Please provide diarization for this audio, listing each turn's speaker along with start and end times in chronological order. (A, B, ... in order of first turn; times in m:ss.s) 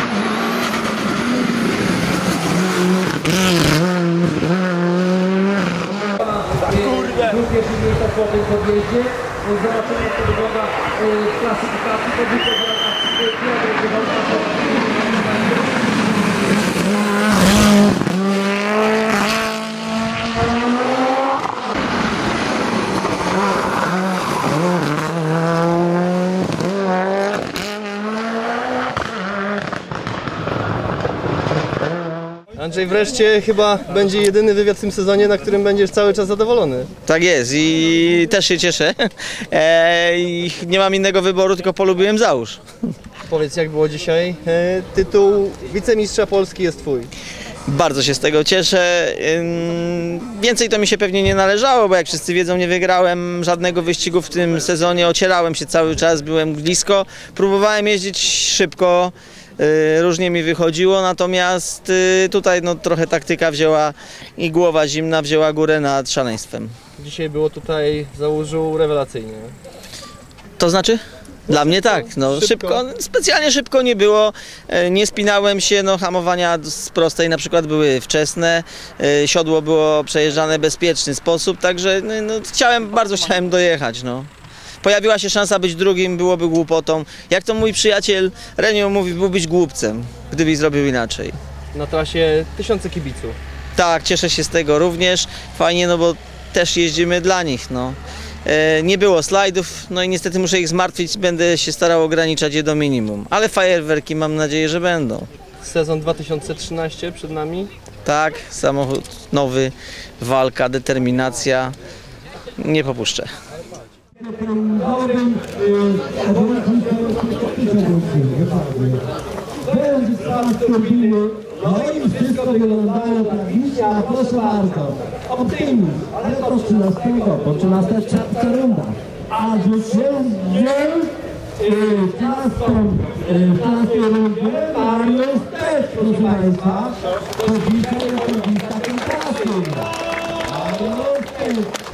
0:06.4-0:15.7 A
0:32.5-0:36.9 B
0:37.0-0:42.6 C
0:43.3-0:47.1 B
0:47.7-1:06.7 C
1:07.0-1:09.5 B
1:10.6-1:24.3 C
1:11.5-1:12.8 B
1:24.8-1:31.4 C
1:31.7-1:33.4 B
1:33.8-1:45.3 C
1:45.6-1:47.7 B
1:48.0-1:51.8 C
1:52.6-1:53.3 C
1:54.2-1:59.0 D
1:59.7-2:19.9 D
2:20.5-2:21.8 D